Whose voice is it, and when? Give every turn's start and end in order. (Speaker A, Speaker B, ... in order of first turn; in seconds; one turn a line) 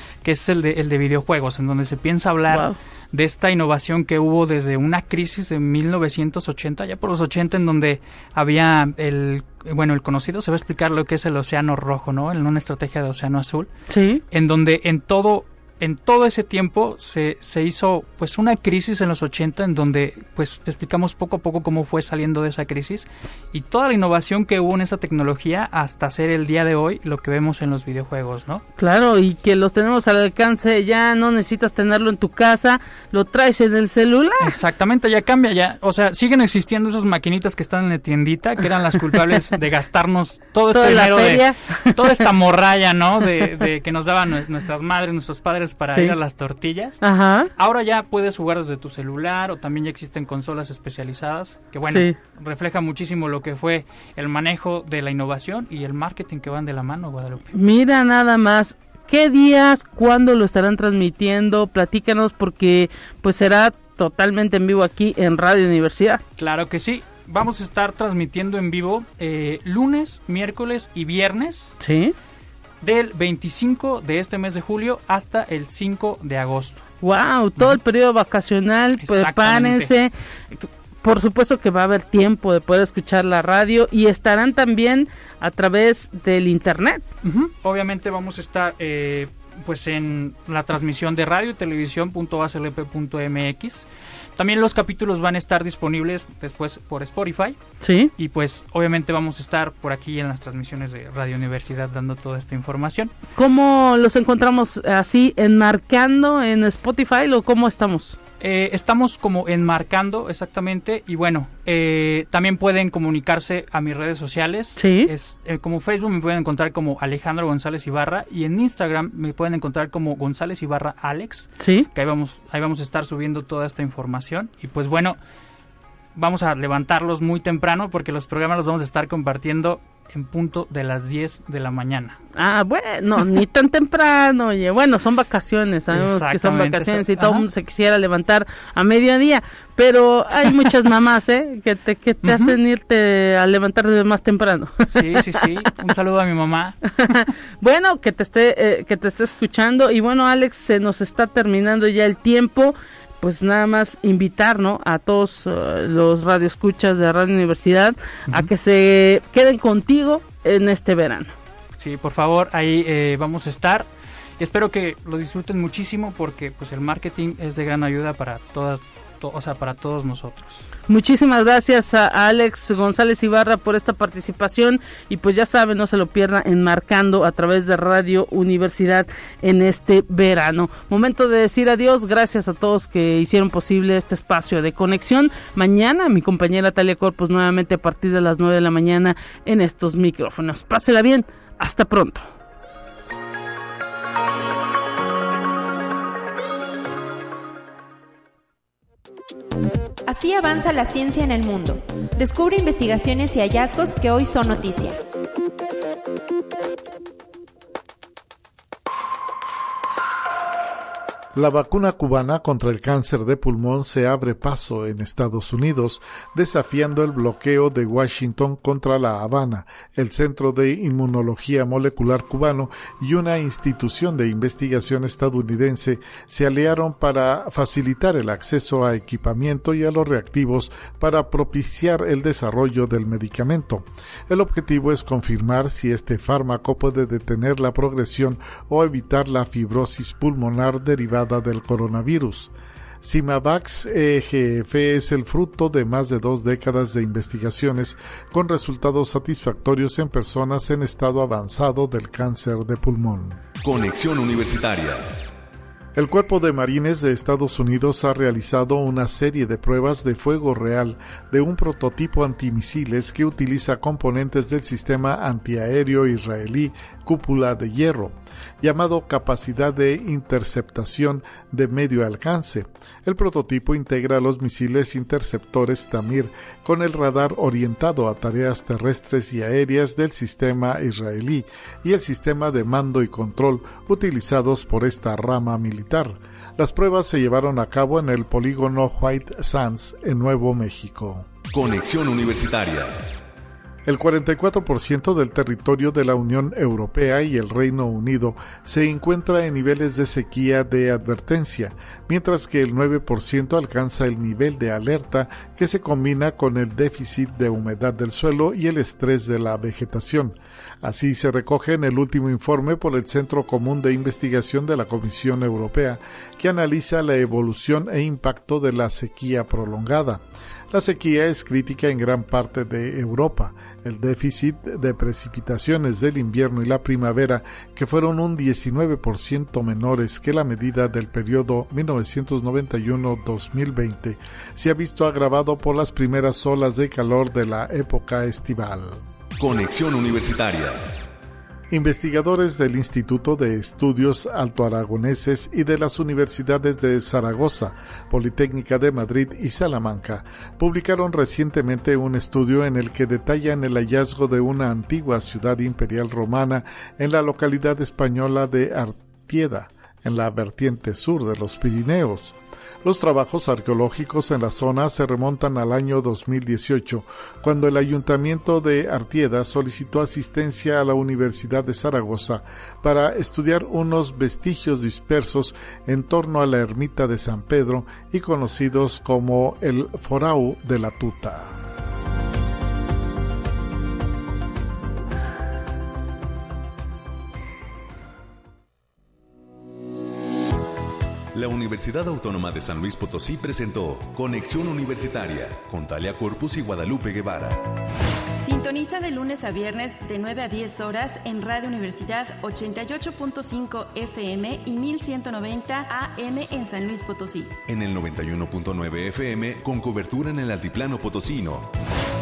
Speaker A: 0.2-13.7
Speaker B: 2.5-2.8
Speaker B: 13.9-14.2
Speaker A: 14.3-28.6
Speaker B: 28.8-34.5
Speaker A: 34.4-47.0
Speaker B: 40.7-42.0
Speaker B: 45.9-46.1
Speaker B: 47.0-47.5
Speaker A: 47.6-57.5
Speaker B: 51.9-52.2
Speaker B: 57.5-66.2
Speaker A: 66.4-71.8
Speaker B: 71.8-72.2
Speaker A: 72.8-76.8
Speaker B: 77.0-87.0
Speaker A: 79.0-79.9
Speaker A: 87.2-97.6
Speaker B: 97.8-98.1
Speaker A: 98.2-103.1
Speaker B: 103.4-108.2
Speaker A: 108.4-125.2
Speaker B: 114.8-115.1
Speaker B: 121.6-121.9
Speaker A: 126.2-132.2
Speaker B: 132.4-145.5
Speaker A: 135.9-137.5
Speaker A: 142.2-142.6
Speaker A: 144.9-146.8
Speaker B: 147.0-161.3
Speaker A: 161.8-163.9
Speaker A: 164.4-170.6
Speaker B: 170.9-192.3
Speaker C: 200.1-205.0
Speaker D: 211.3-253.4
Speaker E: 253.6-255.1
Speaker D: 255.9-291.3
Speaker E: 291.5-293.1
Speaker D: 293.9-339.0
Speaker E: 339.4-341.0
Speaker D: 341.7-381.6
Speaker E: 391.3-397.8
Speaker C: 398.4-407.6
Speaker E: 407.7-411.7